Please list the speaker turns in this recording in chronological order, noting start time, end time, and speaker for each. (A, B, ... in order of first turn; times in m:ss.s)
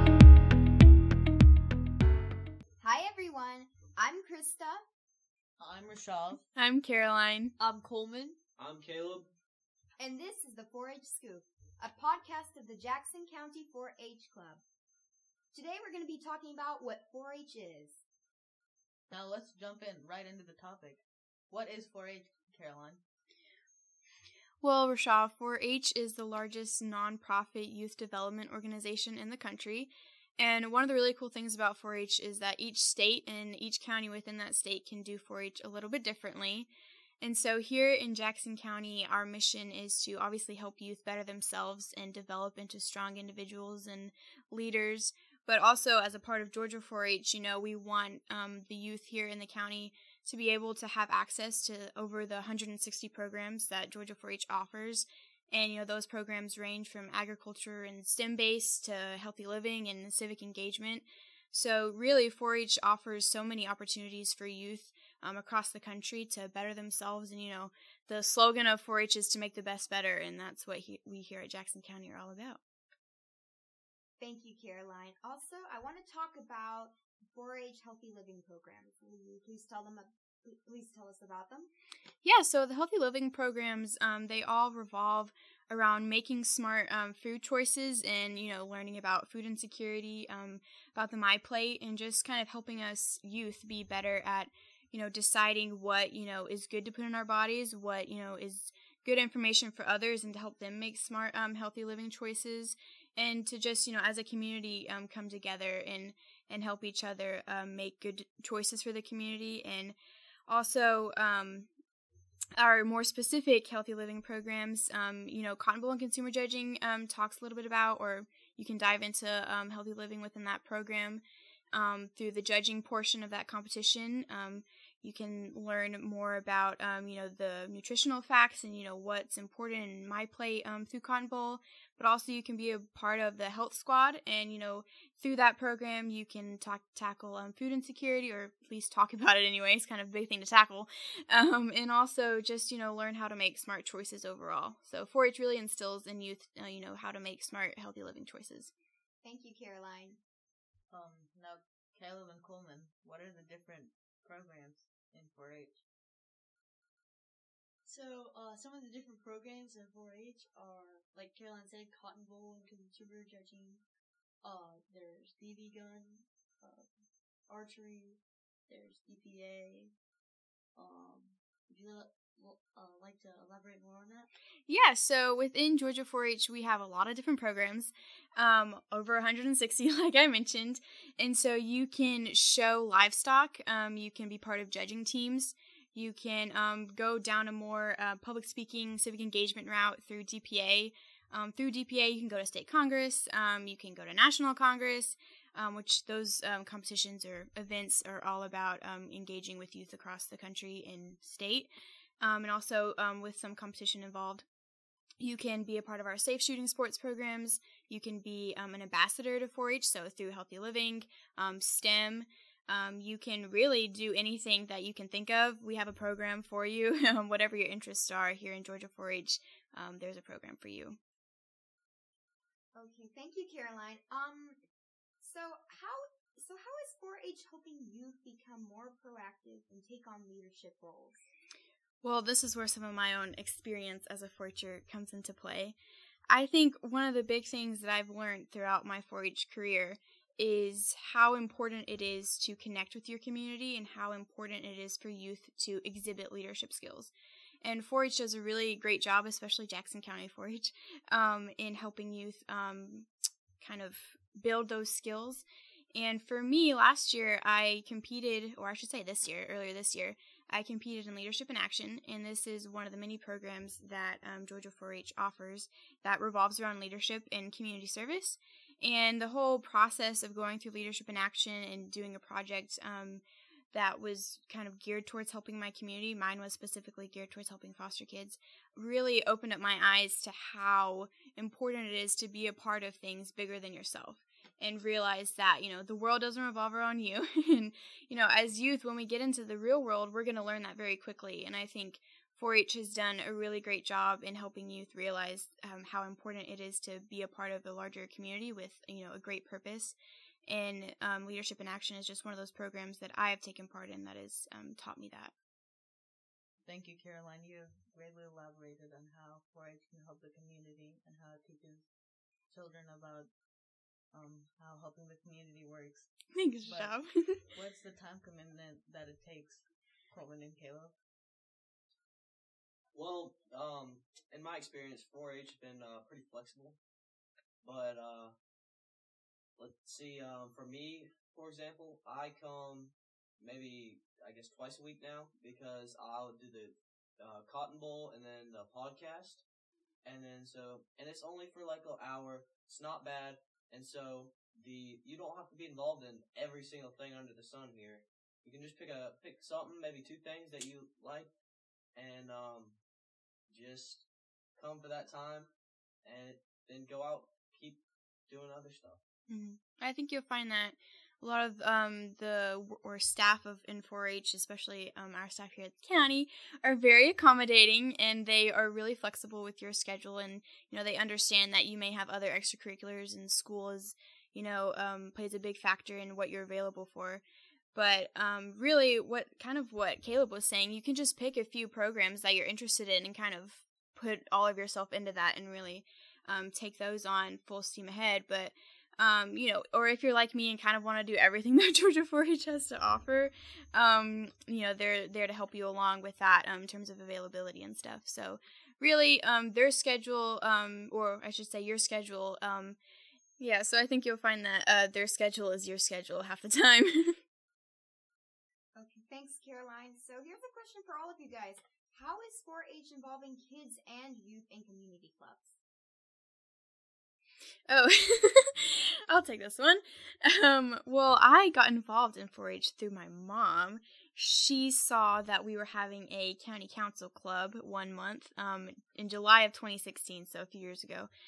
0:02.8-0:04.8 A
0:05.6-0:06.5 B
0:06.6-0:07.5 C
0:07.6-0:08.4 B
0:08.6-0:09.3 D
0:10.0-0:14.6 A
0:15.5-0:18.0 A
0:19.1-0:23.0 B
0:24.6-0:36.7 C
0:37.2-1:12.6 C
1:14.2-1:21.7 A
1:22.2-1:49.9 C
1:50.5-1:51.7 C
1:52.6-2:28.7 C
2:29.2-2:30.2 A
2:30.9-2:35.8 B
2:37.8-2:43.8 E
2:44.4-2:46.9 E
2:47.5-2:49.9 E
2:50.8-2:54.3 E
2:54.7-3:24.4 C
3:25.2-3:41.0 C
3:42.7-3:44.6 A
3:45.2-3:51.3 A
3:52.0-3:55.8 C
3:56.3-4:07.1 C
4:07.6-4:13.1 C
4:13.6-5:00.0 C
5:00.5-5:05.3 C
5:06.6-5:11.9 B
5:12.5-5:13.3 B
5:14.1-5:16.9 B
5:16.3-5:17.4 C
5:17.5-5:21.0 B
5:22.9-5:26.8 D
5:27.6-5:28.3 D
5:29.6-5:39.4 D
5:40.0-5:51.3 D
5:51.9-5:52.8 D
5:53.5-5:55.5 D
5:56.0-5:59.0 D
5:59.3-6:42.8 C
6:43.4-6:47.2 C
6:48.7-6:55.6 A
6:57.7-7:11.1 C